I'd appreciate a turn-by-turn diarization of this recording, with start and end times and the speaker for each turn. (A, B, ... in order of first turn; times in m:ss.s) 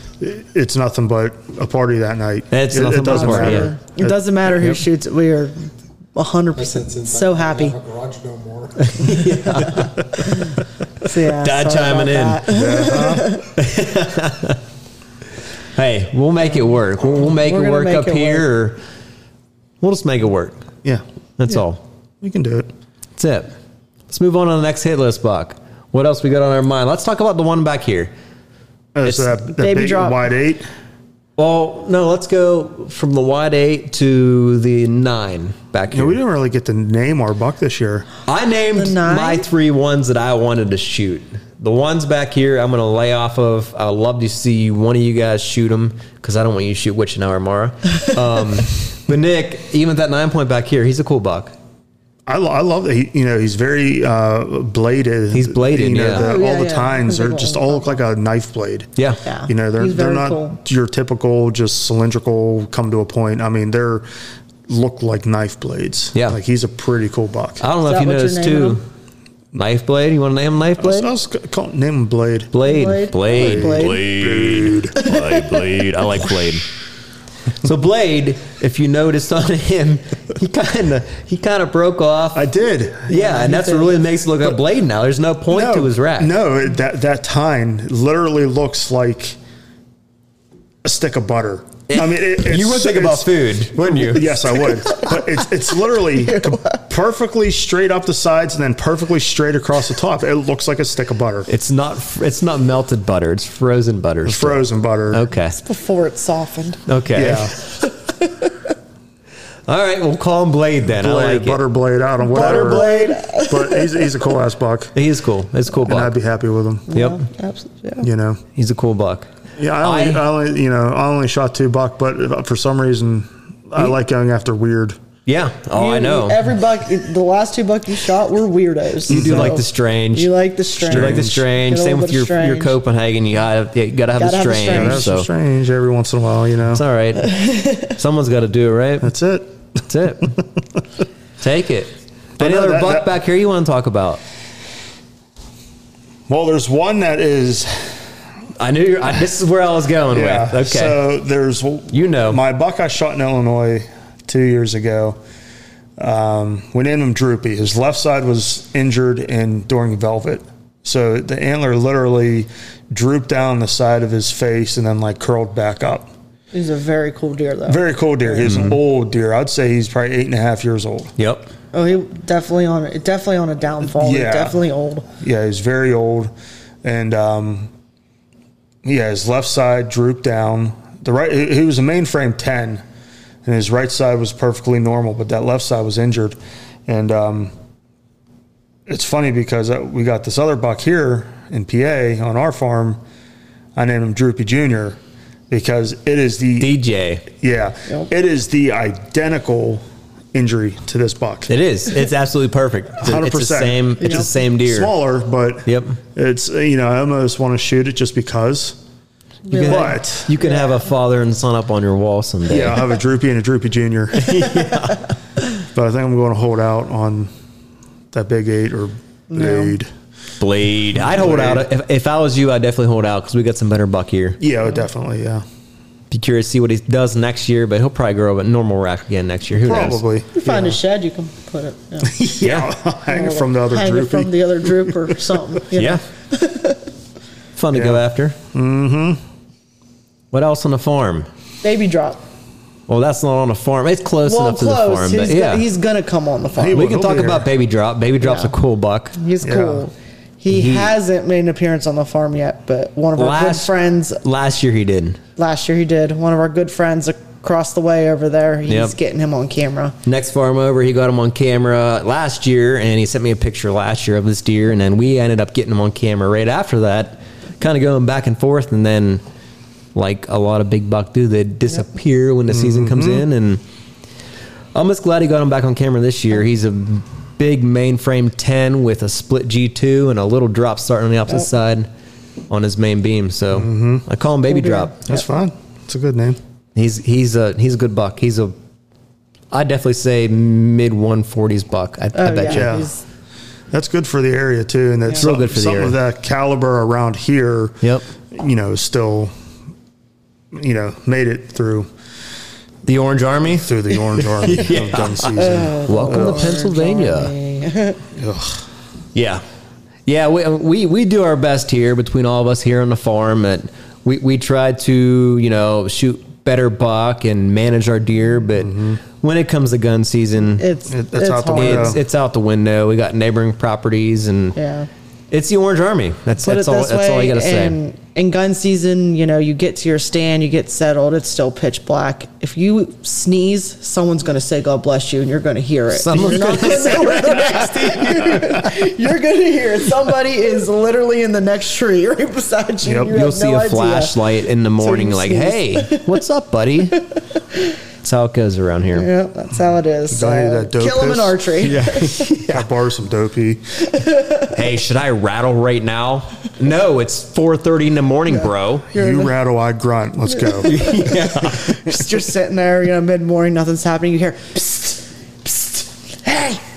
0:00.2-0:04.2 A
0:02.5-0:03.7 B
0:03.0-0:07.8 C
0:06.6-0:09.3 D
0:08.8-0:10.5 B
0:09.4-0:13.5 C
0:11.0-0:12.8 B
0:12.5-0:13.3 A
0:13.5-0:14.6 B
0:15.7-0:18.8 B
0:17.2-0:18.5 C
0:19.8-0:20.6 B
0:21.4-0:21.8 B
0:22.2-0:22.7 A
0:23.2-0:23.5 B
0:24.1-0:28.1 B
0:28.9-0:30.7 A
0:29.6-0:30.2 C
0:31.4-0:36.2 B
0:35.9-0:38.1 A
0:38.3-0:51.6 B
0:38.8-0:39.5 C
0:52.3-0:58.9 A
0:55.3-0:56.3 B
0:56.1-0:58.0 C
0:59.2-1:00.6 C
0:59.5-1:04.1 A
1:04.7-1:07.6 A
1:07.6-1:08.8 B
1:07.9-1:08.8 C
1:09.6-1:11.1 B
1:10.8-1:12.5 A
1:12.5-1:16.6 B
1:12.6-1:14.0 C
1:13.3-1:15.0 A
1:15.0-1:15.8 C
1:17.6-1:22.4 B
1:22.4-1:23.2 A
1:23.1-1:26.3 B
1:23.1-1:24.0 C
1:25.5-1:29.4 A
1:30.8-1:41.5 A
1:31.9-1:34.6 B
1:34.7-1:35.3 C
1:36.1-1:36.8 C
1:41.5-1:45.6 B
1:44.2-1:45.2 A
1:45.6-1:46.9 C
1:46.9-1:47.6 B
1:47.1-1:47.6 A
1:47.8-1:48.6 C
1:49.7-1:51.6 B
1:50.9-1:54.9 A
1:52.2-1:54.1 C
1:52.3-1:53.1 B
1:55.0-1:56.1 B
1:55.8-1:56.9 A
1:56.9-1:58.1 C
1:56.9-1:57.2 B
1:58.0-1:58.4 A
1:58.6-1:59.3 B
1:59.6-2:05.0 A
1:59.8-2:00.2 B
2:05.3-2:06.4 B
2:05.8-2:12.8 C
2:09.1-2:10.3 B
2:09.1-2:09.6 A
2:10.8-2:11.4 A
2:10.8-2:15.3 B
2:14.1-2:15.1 C
2:14.7-2:16.8 A
2:16.7-2:19.1 B
2:17.2-2:17.9 C
2:19.0-2:20.4 A
2:19.9-2:20.4 B
2:21.4-2:24.2 B
2:22.4-2:23.1 A
2:26.3-2:28.1 A
2:28.6-2:31.0 B
2:30.1-2:35.2 A
2:31.9-2:32.4 B
2:36.0-2:46.1 A
2:46.5-2:48.6 C
2:47.7-2:51.1 A
2:48.4-2:48.8 B
2:51.2-2:51.5 B
2:51.7-2:55.1 C
2:54.0-2:54.6 A
2:55.2-2:56.3 A
2:56.8-2:57.7 A
2:58.8-3:02.8 A
3:03.4-3:07.5 A
3:08.9-3:13.0 A
3:13.8-3:15.0 A
3:15.5-3:16.8 A
3:16.6-3:17.2 B
3:17.3-3:19.8 A
3:20.3-3:21.5 A
3:21.5-3:24.9 B
3:23.0-3:28.8 A
3:25.6-3:26.0 B
3:29.5-3:30.7 C
3:29.5-3:32.8 B
3:29.6-3:30.3 A
3:32.5-3:34.5 A
3:34.1-3:35.1 B
3:35.7-3:37.3 A
3:38.1-3:39.9 A
3:39.3-3:39.8 C
3:40.4-3:44.4 B
3:40.9-3:41.7 A
3:44.4-3:45.4 A
3:46.1-3:50.0 B
3:49.6-3:50.8 A
3:50.4-3:52.2 C
3:52.0-3:55.2 A
3:52.4-3:52.7 B
3:53.1-3:56.8 C
3:55.7-3:56.0 B
3:57.6-3:58.4 B
3:57.7-3:59.2 A
4:00.3-4:01.3 B
4:01.6-4:02.2 C
4:02.9-4:05.6 B
4:04.2-4:06.9 C
4:06.5-4:07.5 A
4:06.7-4:09.2 B
4:08.2-4:08.5 C
4:09.2-4:14.2 C
4:09.4-4:09.8 A
4:10.5-4:10.9 B
4:13.2-4:15.2 B
4:15.4-4:20.0 C
4:18.7-4:18.9 B
4:20.0-4:29.2 B
4:29.9-4:33.6 B
4:32.5-4:33.2 A
4:34.8-4:41.9 B
4:42.5-4:44.9 B
4:43.5-4:44.0 A
4:44.5-4:45.2 C
4:45.1-4:46.4 A
4:46.8-4:48.5 B
4:49.5-4:52.8 B
4:52.2-4:53.0 C
4:52.5-4:52.9 A
4:53.7-4:59.3 A
4:55.2-4:56.0 B
5:00.5-5:01.9 A
5:02.8-5:07.3 B
5:03.5-5:06.5 A
5:05.4-5:08.0 C
5:08.2-5:08.6 A
5:09.2-5:09.4 B
5:10.1-5:20.6 B
5:18.6-5:19.0 A
5:20.5-5:22.0 C
5:20.9-5:22.0 A
5:21.5-5:24.6 B
5:24.6-5:24.9 C
5:25.3-5:27.8 B
5:26.4-5:44.2 C
5:35.9-5:38.8 B
5:42.8-5:43.1 A
5:43.1-5:47.0 B
5:44.8-5:46.2 C
5:46.9-5:47.7 C
5:48.0-5:49.1 B
5:48.9-5:52.3 C
5:50.1-5:51.4 A
5:51.6-5:52.7 B
5:52.5-5:53.6 A
5:53.8-5:54.5 C
5:54.5-5:58.9 B
5:58.9-5:59.3 C
5:58.9-6:00.9 A
6:00.4-6:06.3 C
6:00.6-6:02.0 B
6:06.2-6:06.6 B